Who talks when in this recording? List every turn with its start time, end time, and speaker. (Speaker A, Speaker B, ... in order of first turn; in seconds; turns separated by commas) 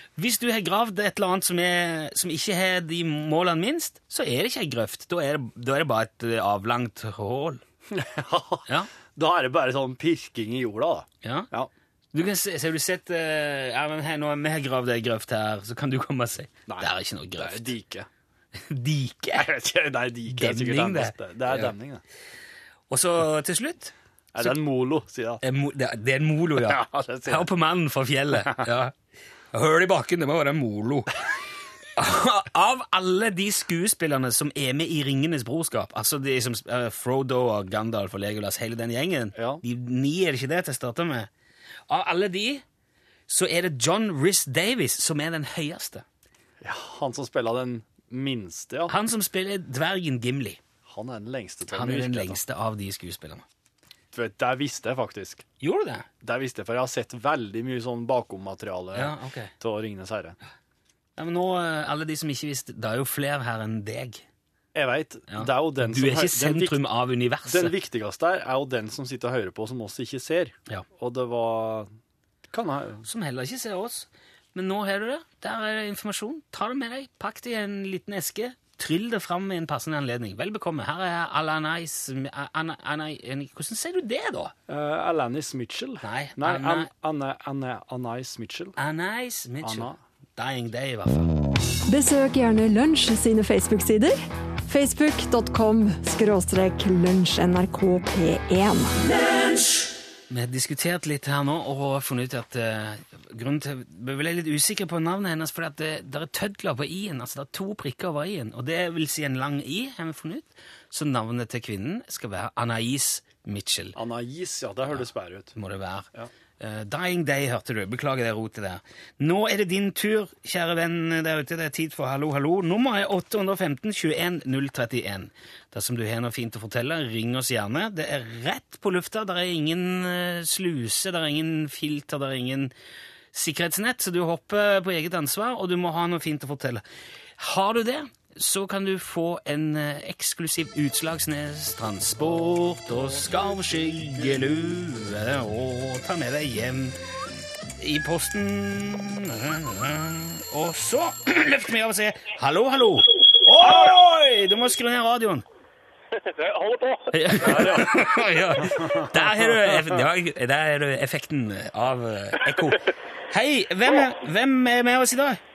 Speaker A: 0.2-7.6, Speaker B: 7.9-11.7, Speaker A: 11.2-11.5, Speaker A: 12.1-17.7, Speaker B: 16.7-18.1, Speaker A: 18.6-19.5, Speaker B: 19.3-22.0, Speaker A: 20.3-21.7, Speaker A: 22.9-24.6, Speaker B: 24.3-25.4, Speaker A: 25.4-28.9, Speaker B: 26.6-27.5, Speaker A: 29.5-31.2, Speaker A: 32.0-41.3, Speaker B: 39.4-39.6, Speaker A: 41.9-42.6, Speaker A: 43.3-46.0, Speaker B: 46.6-48.9, Speaker A: 48.9-50.6, Speaker B: 50.9-52.4, Speaker A: 51.7-53.5, Speaker B: 54.1-55.5, Speaker A: 55.6-56.1, Speaker B: 56.2-60.4, Speaker A: 59.0-59.5, Speaker A: 61.2-64.2, Speaker B: 64.7-66.8, Speaker A: 65.3-67.8, Speaker B: 67.5-71.9, Speaker B: 72.5-73.0, Speaker A: 73.0-84.5, Speaker B: 84.7-88.8, Speaker A: 86.0-86.9, Speaker A: 88.8-91.3, Speaker B: 89.6-90.0, Speaker C: 91.9-99.0, Speaker A: 100.3-114.0, Speaker B: 114.0-115.5, Speaker A: 115.5-116.1, Speaker A: 116.6-132.7, Speaker A: 133.3-136.8, Speaker A: 137.4-147.0, Speaker A: 147.8-155.4, Speaker D: 153.5-153.9, Speaker D: 156.3-157.8, Speaker A: 157.1-165.4, Speaker B: 157.4-158.1